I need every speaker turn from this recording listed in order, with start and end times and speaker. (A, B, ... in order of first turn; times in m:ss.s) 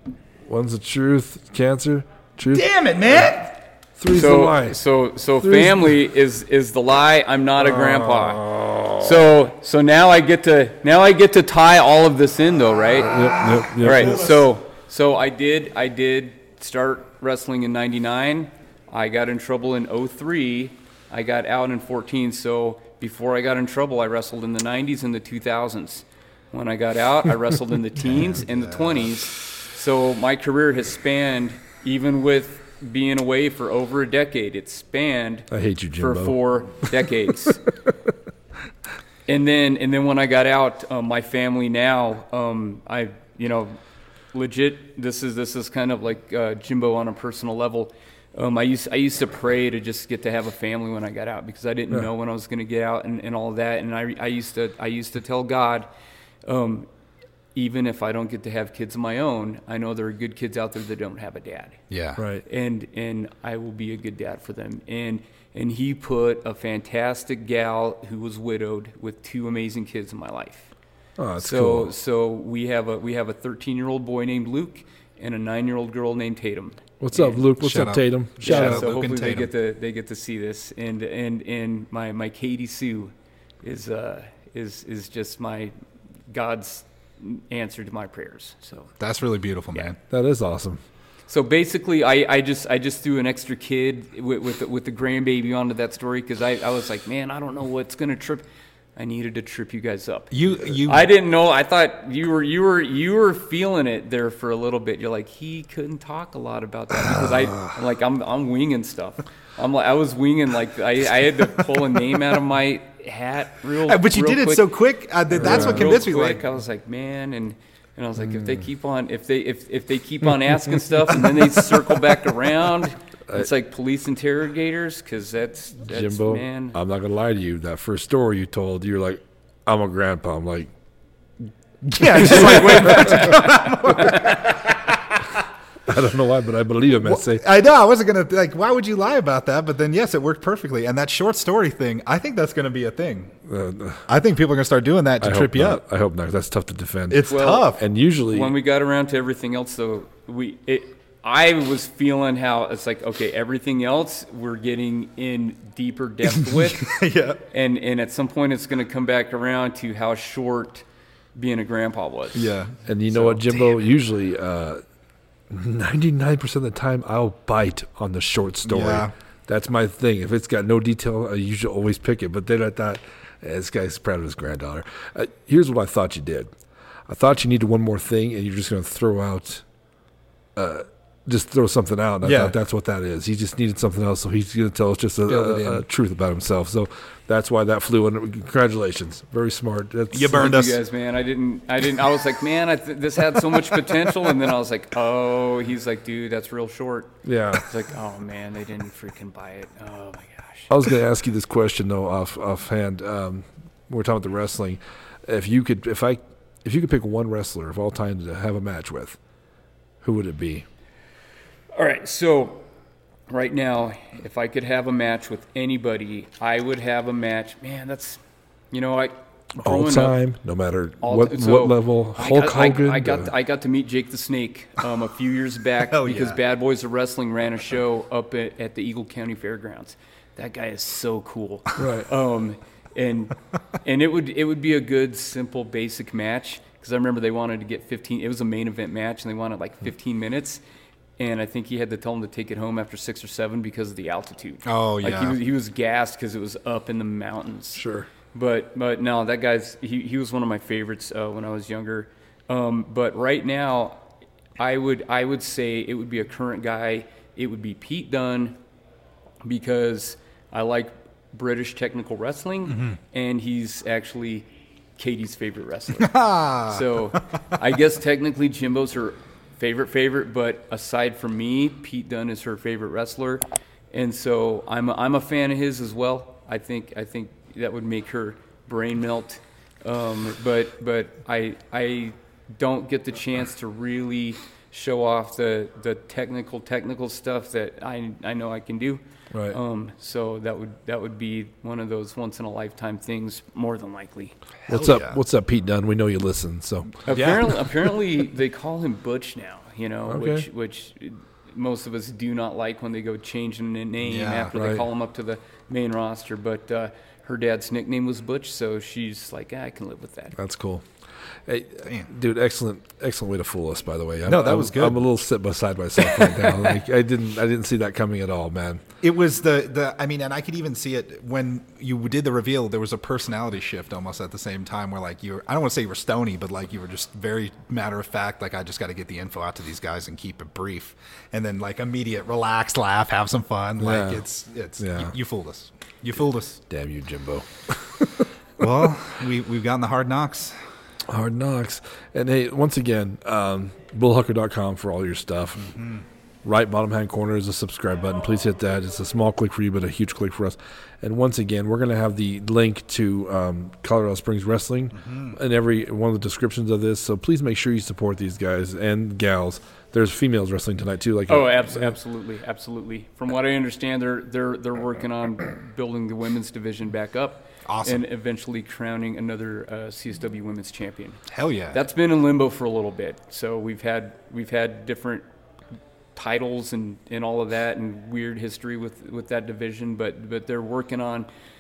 0:00.5-0:02.7 A
0:02.5-0:03.5 B
0:04.0-0:04.8 A
0:04.1-0:13.3 C
0:05.4-0:05.9 A
0:07.6-0:09.3 A
0:13.0-0:14.3 A
0:13.8-0:37.6 C
0:28.4-0:29.0 B
0:35.5-0:36.8 A
0:39.3-0:43.8 C
0:44.3-0:55.9 C
0:56.4-0:56.9 C
0:57.6-1:01.8 C
1:01.9-1:02.2 B
1:02.2-1:02.4 A
1:02.4-1:10.7 C
1:11.2-1:11.9 A
1:11.4-1:17.4 C
1:17.0-1:18.8 A
1:17.6-1:19.5 B
1:18.4-1:25.7 C
1:26.3-1:28.9 C
1:29.0-1:30.0 B
1:30.1-1:30.8 A
1:31.3-1:38.4 C
1:39.0-1:54.7 C
1:40.3-1:41.1 B
1:53.9-1:56.4 B
1:55.3-2:06.8 C
1:55.4-1:56.0 A
2:05.9-2:10.7 A
2:11.9-2:14.7 B
2:12.1-2:14.4 C
2:12.2-2:13.2 A
2:15.8-2:17.4 A
2:17.0-2:23.4 B
2:23.5-2:24.0 A
2:24.1-2:25.8 B
2:25.2-2:28.5 A
2:27.1-2:27.8 B
2:27.3-2:27.8 C
2:28.3-2:37.0 C
2:36.5-2:37.4 B
2:37.5-2:42.5 C
2:42.4-2:43.7 B
2:42.8-2:44.8 A
2:45.5-2:56.5 A
2:48.6-2:49.1 B
2:57.1-2:59.6 A
3:00.6-3:10.5 A
3:02.2-3:02.5 B
3:05.3-3:05.8 B
3:10.1-3:10.8 B
3:10.3-3:20.7 C
3:17.2-3:17.7 A
3:20.7-3:29.2 A
3:30.0-3:30.7 A
3:31.7-3:32.6 C
3:33.3-3:40.2 C
3:39.6-3:43.3 A
3:41.0-4:00.6 C
3:45.9-3:46.4 B
3:51.8-3:52.1 A
4:01.2-4:14.0 C
4:04.6-4:05.4 B
4:07.8-4:08.1 A
4:14.6-4:18.6 C
4:19.4-4:54.4 C
4:26.0-4:26.8 B
4:49.3-4:49.6 A
4:54.7-4:55.2 B
4:54.7-4:56.9 A
4:57.1-4:57.5 B
4:57.1-5:10.4 C
5:00.1-5:00.5 A
5:04.0-5:04.5 B
5:04.5-5:04.8 A
5:10.4-5:10.8 A
5:11.5-5:18.8 A
5:14.3-5:15.1 B
5:16.4-5:16.7 C
5:19.0-5:36.6 B
5:33.8-5:34.2 A
5:34.8-5:35.1 A
5:36.7-5:38.2 A
5:38.6-5:40.6 B
5:41.1-5:45.8 A
5:45.7-5:46.0 B
5:46.4-6:02.0 A
5:55.0-5:55.4 B
6:01.3-6:15.2 C
6:07.6-6:08.0 B
6:11.3-6:11.8 B
6:16.2-6:21.3 C